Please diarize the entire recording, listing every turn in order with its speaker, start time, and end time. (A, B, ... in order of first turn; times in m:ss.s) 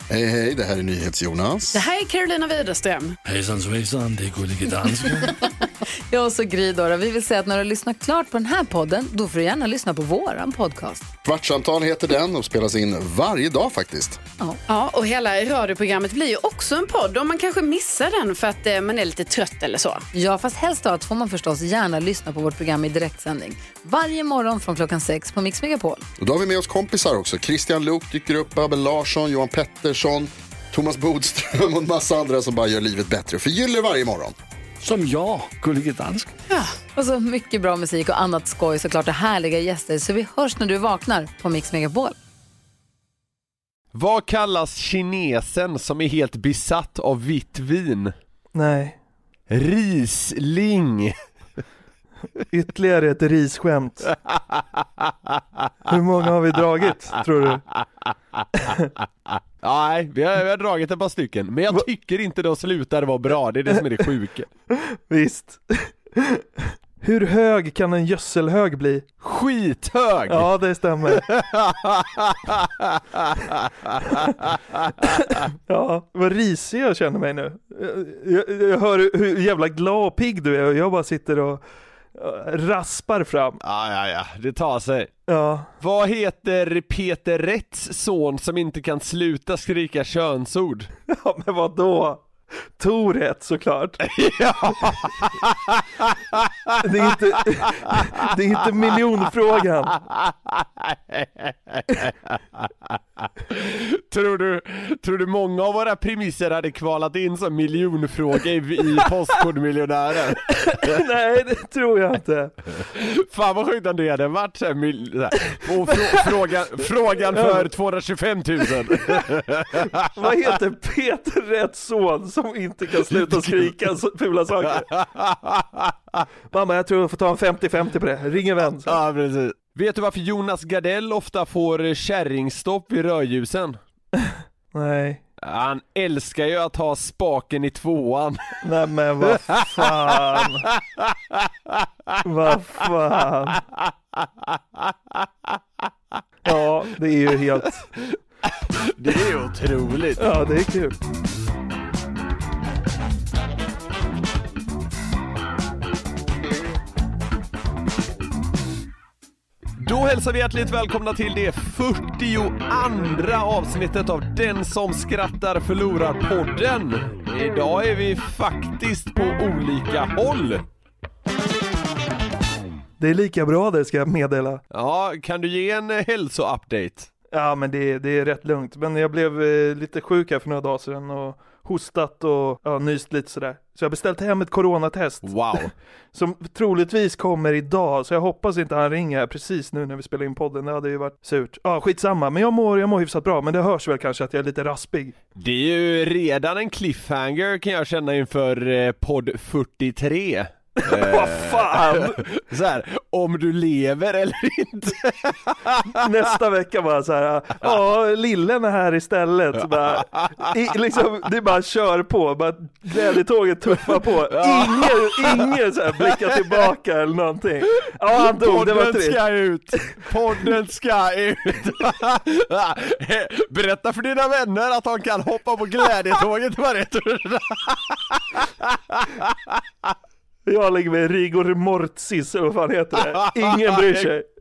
0:00.1-0:01.8 A
0:01.7-0:03.2 B
0:03.2-0:05.3 C
0:06.1-0:11.1 D
0:11.2-0:14.2 A
0:14.7-0:20.0 B
0:20.1-0:26.0 D
0:26.2-0:34.3 A
0:34.8-0:36.3 C
0:36.5-0:42.2 D
0:43.9-0:48.1 E
0:48.5-0:49.0 F
0:49.5-0:51.1 E
0:52.5-0:54.1 F
0:54.2-0:55.9 E
0:55.9-0:57.6 F
0:59.3-1:04.5 E
1:03.7-1:04.0 F
1:04.7-1:09.1 F
1:09.2-1:10.5 E
1:10.3-1:11.2 F
1:11.1-1:15.2 E
1:15.1-1:21.6 F
1:22.1-1:23.6 F
1:23.6-1:25.1 E
1:25.3-1:25.7 F
1:25.8-1:30.9 E
1:31.1-1:32.2 F
1:32.8-1:34.0 F
1:34.0-1:38.2 E
1:36.8-1:40.0 F
1:40.1-1:51.0 E
1:50.5-1:52.8 F
1:52.8-2:00.1 E
1:55.9-1:56.3 F
1:57.3-1:57.7 F
2:00.1-2:04.9 F
2:03.1-2:03.7 E
2:04.7-2:06.2 E
2:06.5-2:09.0 F
2:08.8-2:13.8 E
2:14.2-2:15.2 F
2:15.4-2:18.6 E
2:18.6-2:20.7 F
2:19.2-2:22.2 E
2:22.2-2:23.6 F
2:24.2-2:25.6 E
2:26.4-2:27.9 F
2:28.0-2:30.2 E
2:30.2-2:30.9 F
2:39.8-2:50.6 E
2:53.0-2:54.6 F
2:54.7-2:57.1 E
2:57.3-3:15.1 F
3:05.2-3:05.7 E
3:15.4-3:25.9 E
3:20.8-3:22.3 F
3:25.9-3:39.2 F
3:29.6-3:30.5 E
3:34.3-3:36.5 E
3:37.9-3:49.9 E
3:50.4-3:54.2 F
3:53.2-3:54.1 E